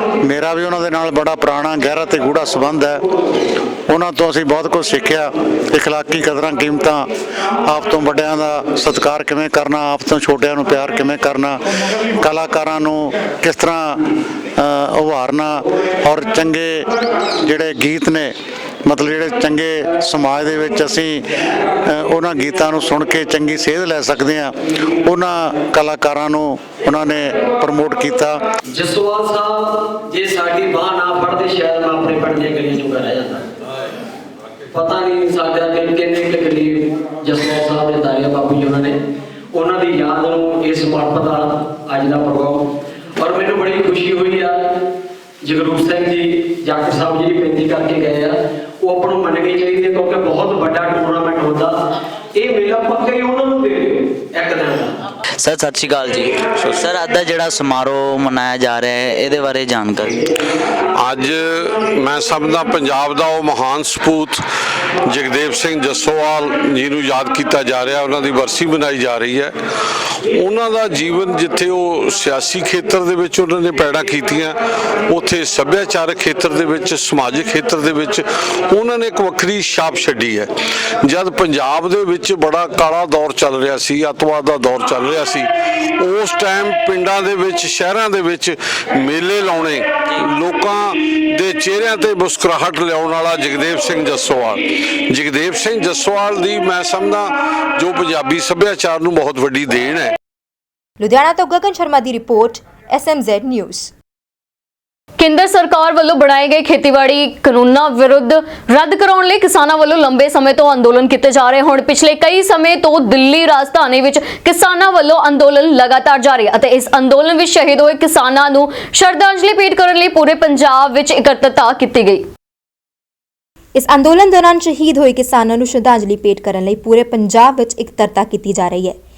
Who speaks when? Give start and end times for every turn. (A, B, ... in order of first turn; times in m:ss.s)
0:00.2-0:03.0 A
0:03.9-0:07.1 A
0:07.6-0:11.6 A
0:12.2-0:14.0 A
0:14.6-0:16.9 A
0:17.4-0:18.3 A
0:18.9-0:21.2 A
0:21.9-0:28.4 A
0:28.7-0:33.4 B
0:34.7-0:39.0 B
0:39.5-0:44.7 B
0:45.4-0:51.8 B
0:52.4-0:55.0 B
0:55.4-1:00.2 C
1:01.0-1:04.4 D
1:05.1-1:09.6 D
1:10.1-1:14.6 D
1:15.1-1:20.5 D
1:21.0-1:40.1 D
1:41.0-1:43.9 E
1:45.2-2:02.2 F
2:03.8-2:09.0 E